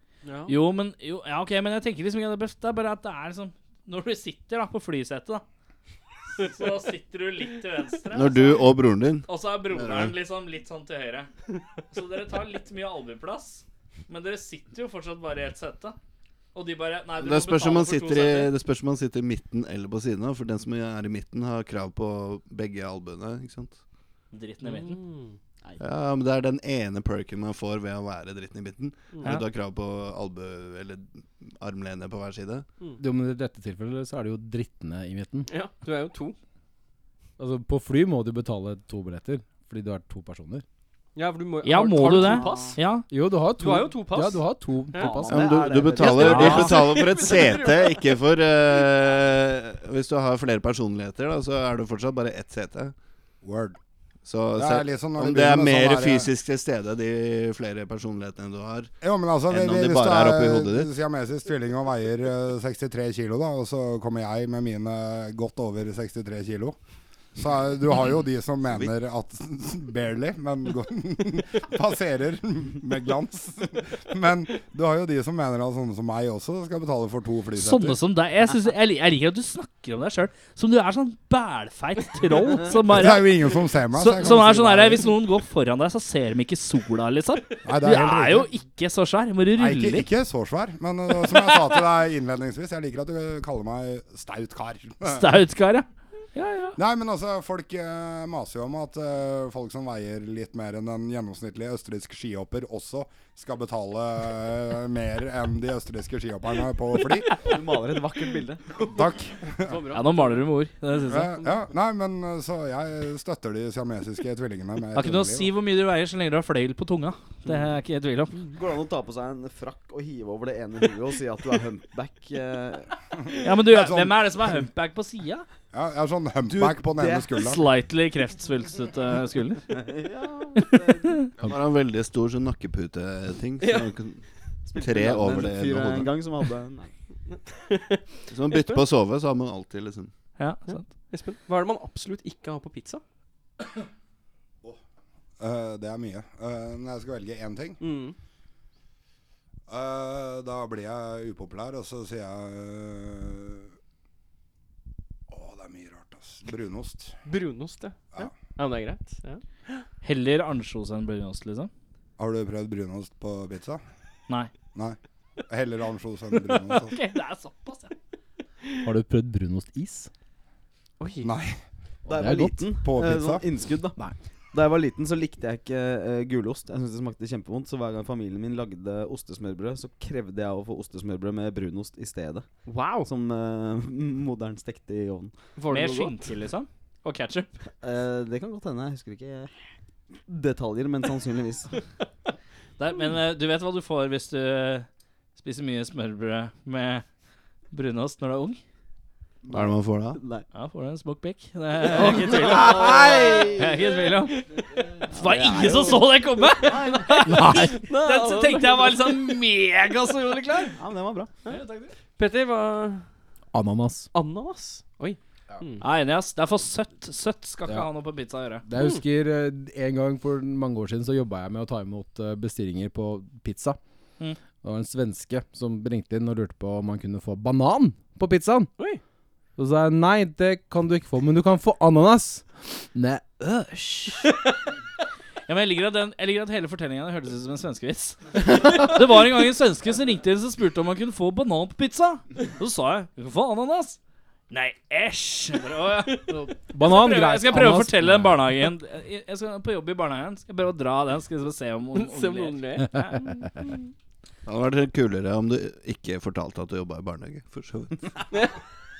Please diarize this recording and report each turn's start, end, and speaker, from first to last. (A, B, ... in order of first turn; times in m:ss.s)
0:00.2-0:00.5 A
0:00.5-0:05.4 B
0:06.4-0:08.7 B
0:08.1-0:10.1 C
0:09.2-0:11.3 B
0:11.9-0:16.0 B
0:16.5-0:18.5 B
0:17.2-0:23.8 C
0:24.3-0:25.0 B
0:24.6-0:25.4 A
0:25.8-0:32.7 C
0:33.0-0:35.5 D
0:35.5-0:36.4 A
0:37.4-0:40.6 D
0:41.2-0:42.8 A
0:41.6-0:43.0 B
0:42.1-0:42.7 E
0:43.1-0:45.6 D
0:43.6-0:45.2 A
0:45.0-0:47.6 E
0:45.3-0:52.9 C
0:46.0-0:48.1 A
0:46.0-0:46.8 B
0:53.4-0:53.8 F
0:54.3-0:59.0 C
0:54.6-0:56.3 F
0:59.0-1:06.8 F
0:59.5-1:00.9 C
1:07.4-1:18.0 F
1:17.6-1:23.3 B
1:22.7-1:25.1 F
1:23.9-1:30.1 B
1:27.6-1:28.5 F
1:29.6-1:35.3 F
1:35.1-1:36.8 B
1:36.8-1:47.4 F
1:47.4-1:48.6 E
1:48.9-1:49.7 F
1:49.0-1:50.4 A
1:49.9-1:51.4 B
1:51.1-1:55.5 F
1:55.0-1:58.4 B
1:58.5-2:02.9 E
2:03.4-2:05.4 B
2:03.7-2:04.1 F
2:05.7-2:07.7 F
2:06.5-2:07.3 E
2:07.4-2:09.8 B
2:09.7-2:11.2 E
2:10.6-2:11.3 B
2:11.4-2:14.2 C
2:13.6-2:13.9 A
2:14.7-2:16.9 E
2:14.8-2:16.1 C
2:17.3-2:18.8 A
2:18.3-2:20.1 C
2:20.4-2:20.9 B
2:20.7-2:23.0 A
2:25.4-2:27.8 F
2:27.8-2:28.2 A
2:29.7-2:33.7 F
2:35.3-2:37.2 F
2:37.2-2:39.8 A
2:40.0-2:41.7 B
2:42.2-2:43.8 F
2:45.5-2:47.0 F
2:46.7-2:48.0 B
2:48.8-2:50.1 D
2:51.0-2:51.3 A
2:51.2-2:51.6 F
2:52.1-2:54.0 E
2:52.1-2:52.6 D
2:52.8-2:53.4 F
2:54.5-3:02.4 E
3:02.7-3:03.1 A
3:03.0-3:05.3 E
3:05.6-3:06.3 A
3:05.7-3:07.5 B
3:07.8-3:09.5 E
3:10.3-3:11.7 E
3:12.8-3:17.0 B
3:17.7-3:18.6 B
3:19.4-3:20.4 E
3:19.5-3:20.2 C
3:20.5-3:24.4 B
3:22.0-3:23.6 E
3:22.1-3:23.7 A
3:24.3-3:25.0 A
3:25.1-3:26.1 E
3:25.1-3:30.8 B
3:26.4-3:29.4 A
3:26.6-3:27.4 E
3:27.3-3:27.8 D
3:30.8-3:31.3 E
3:31.5-3:31.9 B
3:32.2-3:33.0 A
3:33.5-3:34.1 D
3:34.1-3:35.8 A
3:35.8-3:38.6 B
3:38.6-3:43.8 D
3:38.7-3:39.0 A
3:44.6-3:48.7 D
3:49.6-3:54.3 D
3:55.5-4:04.0 B
4:04.5-4:13.6 B
4:06.7-4:08.4 D
4:11.9-4:12.9 A
4:14.4-4:18.2 C